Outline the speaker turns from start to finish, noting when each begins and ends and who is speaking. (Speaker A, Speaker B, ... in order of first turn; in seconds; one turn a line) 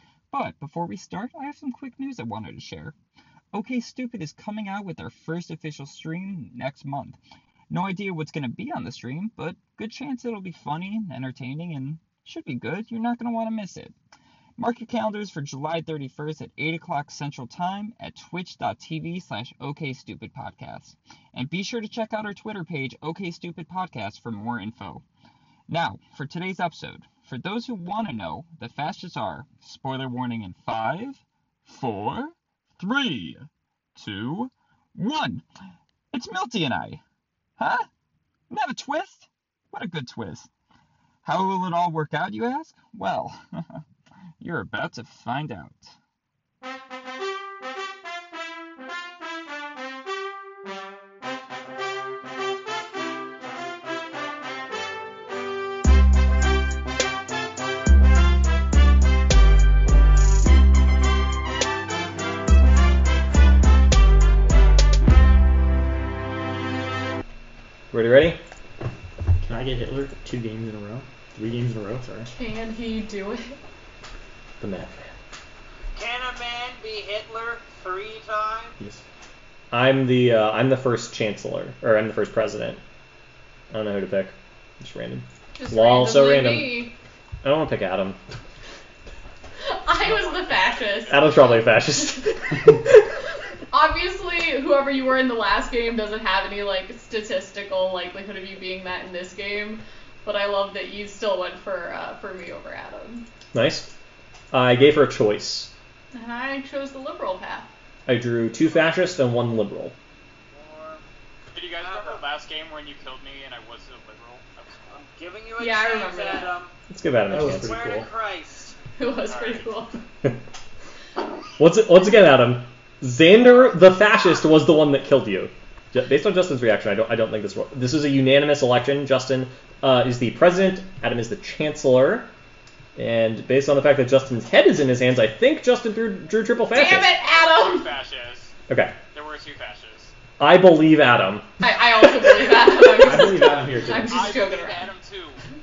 Speaker A: 0.3-2.9
Speaker A: 3.5-7.2
Speaker A: 7.7-13.9
Speaker A: 14.6-25.0
Speaker A: 25.7-35.5
Speaker A: 36.1-37.0
Speaker A: 37.6-37.9
Speaker A: 38.5-40.5
Speaker A: 41.2-43.8
Speaker A: 44.4-45.9
Speaker B: 67.9-68.4
Speaker C: 69.4-72.3
Speaker D: 72.3-73.6
Speaker B: 74.6-75.1
Speaker E: 76.0-78.8
Speaker B: 79.7-82.8
Speaker B: 83.7-86.9
Speaker D: 85.5-86.9
Speaker B: 87.4-88.2
Speaker D: 89.6-91.3
Speaker E: 90.2-91.1
Speaker B: 91.1-93.0
Speaker D: 93.7-103.2
Speaker B: 103.5-103.9
Speaker B: 104.5-105.7
Speaker D: 106.1-107.7
Speaker B: 108.1-109.9
Speaker E: 110.5-111.0
Speaker F: 111.5-115.0
Speaker E: 111.8-112.2
Speaker E: 114.9-116.7
Speaker D: 115.6-116.5
Speaker B: 116.9-117.8
Speaker C: 117.3-118.1
Speaker E: 117.6-118.8
Speaker D: 119.0-119.9
Speaker F: 119.3-119.7
Speaker B: 121.6-132.3
Speaker E: 123.4-123.8
Speaker B: 132.9-137.1
Speaker D: 136.7-137.9
Speaker F: 137.3-138.5
Speaker B: 138.7-138.9
Speaker F: 139.1-140.1
Speaker B: 140.4-141.4
Speaker D: 141.6-144.9
Speaker C: 143.0-144.3
Speaker F: 144.1-145.4